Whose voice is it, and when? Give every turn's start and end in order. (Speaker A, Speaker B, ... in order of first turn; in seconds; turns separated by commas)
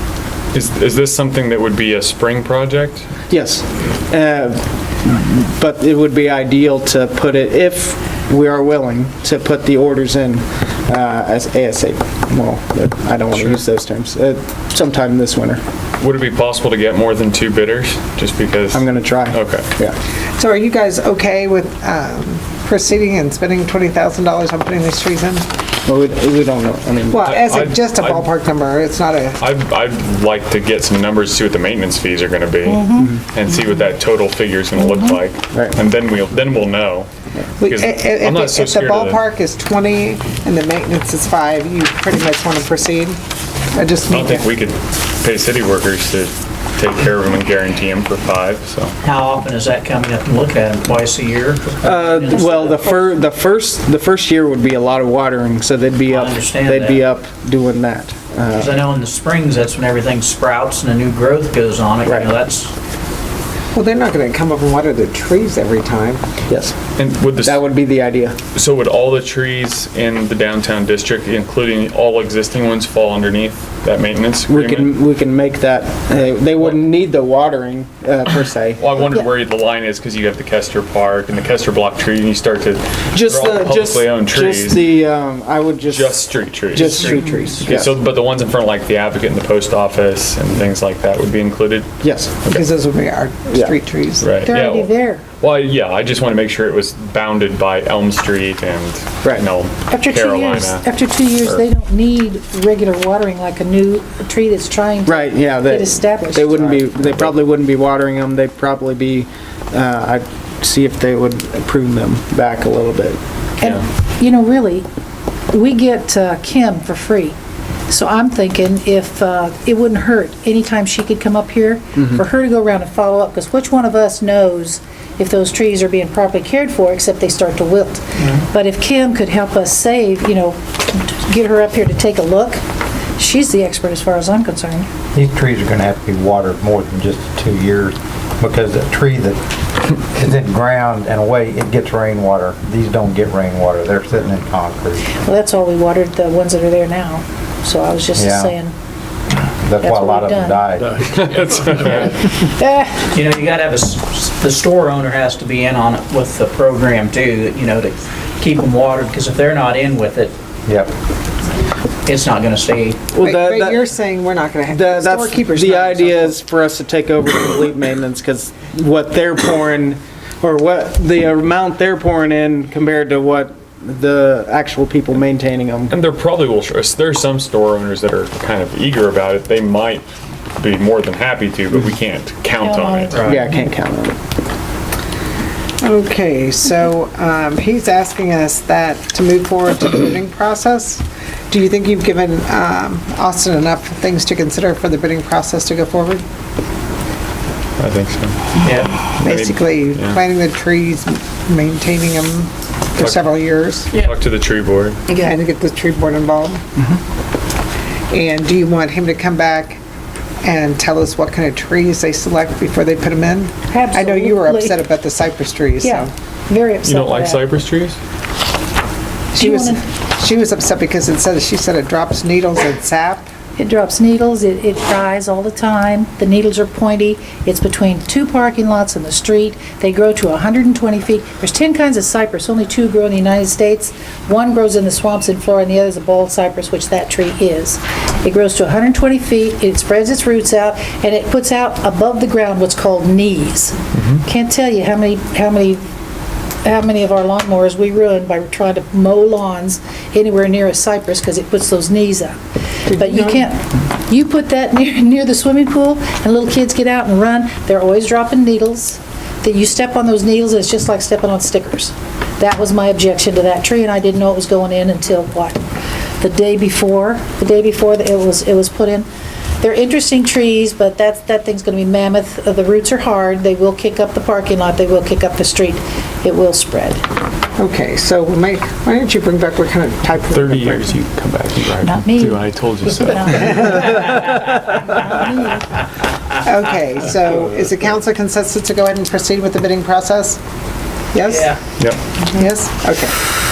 Speaker A: 0.5-3.1, Speaker B: 3.3-15.6, Speaker A: 13.3-13.6, Speaker A: 16.0-19.7, Speaker B: 18.7-19.9, Speaker C: 20.4-25.4, Speaker B: 25.9-27.4, Speaker C: 27.1-29.4, Speaker A: 27.2-28.3, Speaker A: 29.4-37.1, Speaker D: 32.6-33.1, Speaker C: 37.6-43.2, Speaker A: 37.6-39.2, Speaker C: 43.7-44.5, Speaker A: 44.1-48.9, Speaker E: 49.0-53.0, Speaker B: 51.8-58.8, Speaker E: 56.0-57.0, Speaker E: 58.6-62.7, Speaker B: 62.0-62.3, Speaker C: 63.7-66.2, Speaker B: 66.5-66.8, Speaker A: 67.0-67.7, Speaker B: 67.4-68.4, Speaker A: 68.5-74.9, Speaker B: 74.5-78.8, Speaker A: 78.8-84.9, Speaker B: 83.1-87.9, Speaker A: 85.8-92.6, Speaker B: 92.0-92.4, Speaker C: 92.5-94.3, Speaker A: 94.2-101.6, Speaker D: 94.4-95.2, Speaker D: 99.9-106.7, Speaker B: 105.0-113.2, Speaker D: 113.6-114.8, Speaker D: 115.5-117.3, Speaker D: 117.9-132.6, Speaker B: 122.0-122.2, Speaker D: 133.2-134.9, Speaker F: 135.1-145.1, Speaker D: 145.2-148.7, Speaker F: 148.2-148.6, Speaker F: 149.6-151.1, Speaker D: 149.8-150.7, Speaker A: 151.0-152.2, Speaker D: 152.3-153.1, Speaker E: 153.1-160.3, Speaker F: 160.7-160.9, Speaker E: 162.1-163.0, Speaker B: 163.1-163.8, Speaker C: 163.2-166.4, Speaker B: 164.7-175.9, Speaker A: 175.9-180.1, Speaker A: 180.6-183.2, Speaker D: 182.6-183.2, Speaker E: 183.1-183.4, Speaker B: 183.2-184.2, Speaker C: 185.8-196.2, Speaker A: 197.8-200.2, Speaker E: 198.6-199.0, Speaker C: 199.2-204.0, Speaker A: 203.0-203.3, Speaker A: 203.9-205.0, Speaker C: 205.2-206.6, Speaker C: 208.1-209.8, Speaker C: 210.4-216.1, Speaker D: 213.7-214.8, Speaker D: 215.8-217.5, Speaker A: 216.8-218.0, Speaker C: 219.3-223.3, Speaker D: 219.4-219.8, Speaker D: 223.6-245.8, Speaker A: 243.9-244.2, Speaker D: 246.6-252.3, Speaker C: 252.9-253.4, Speaker D: 252.9-265.6, Speaker D: 266.2-269.1, Speaker D: 269.6-277.0, Speaker C: 277.6-280.8, Speaker A: 280.3-283.6, Speaker D: 281.8-285.6, Speaker C: 283.6-283.9, Speaker C: 286.4-290.4, Speaker C: 291.1-291.5, Speaker E: 291.2-291.6, Speaker C: 292.3-293.1